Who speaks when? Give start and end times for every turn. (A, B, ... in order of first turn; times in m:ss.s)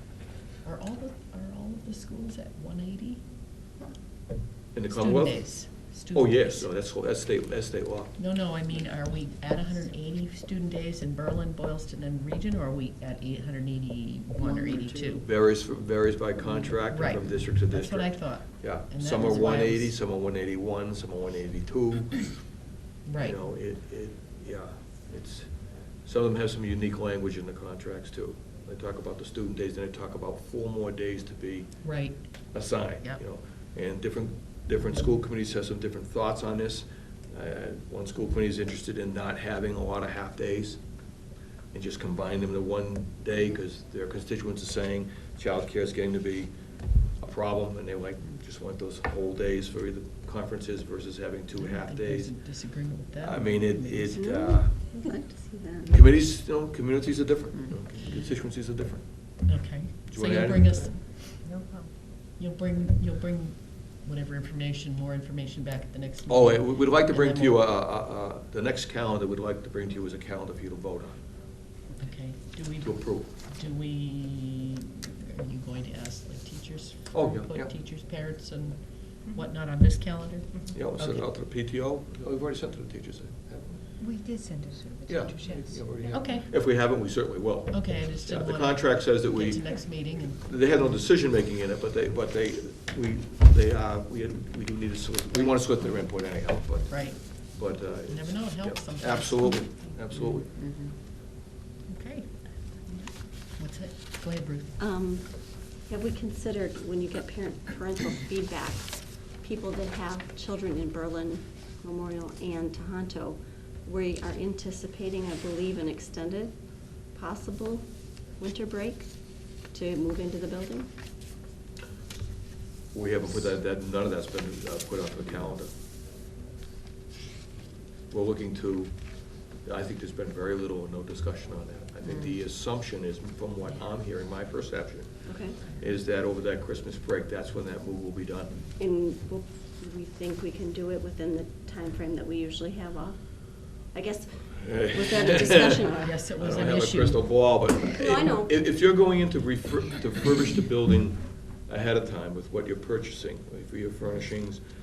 0:00.6-0:03.2 A
0:04.7-0:08.2 B
0:04.9-0:06.7 A
0:08.2-0:15.3 A
0:15.1-0:22.4 B
0:16.8-0:20.0 A
0:23.0-0:23.4 A
0:23.2-0:31.7 B
0:31.8-0:33.2 A
0:32.5-0:40.8 B
0:41.7-0:46.5 B
0:47.1-0:52.4 B
0:51.6-0:54.2 A
0:53.2-0:54.7 B
0:54.2-0:56.0 C
0:55.9-1:00.9 B
0:59.5-1:01.4 A
1:01.4-1:01.9 D
1:02.4-1:07.6 A
1:06.3-1:11.2 B
1:11.9-1:21.3 A
1:12.8-1:13.3 B
1:17.1-1:17.7 B
1:20.7-1:23.8 B
1:24.0-1:26.1 D
1:25.1-1:40.8 B
1:26.1-1:26.5 A
1:27.7-1:30.6 A
1:35.3-1:35.8 A
1:36.9-1:39.6 A
1:41.9-1:44.7 A
1:44.8-1:56.6 C
1:57.1-1:59.1 C
1:59.6-2:00.9 C
2:02.9-2:05.7 B
2:08.1-2:18.6 B
2:15.2-2:15.6 C
2:18.8-2:26.4 C
2:24.6-2:34.6 B
2:25.4-2:27.7 A
2:27.9-2:28.5 C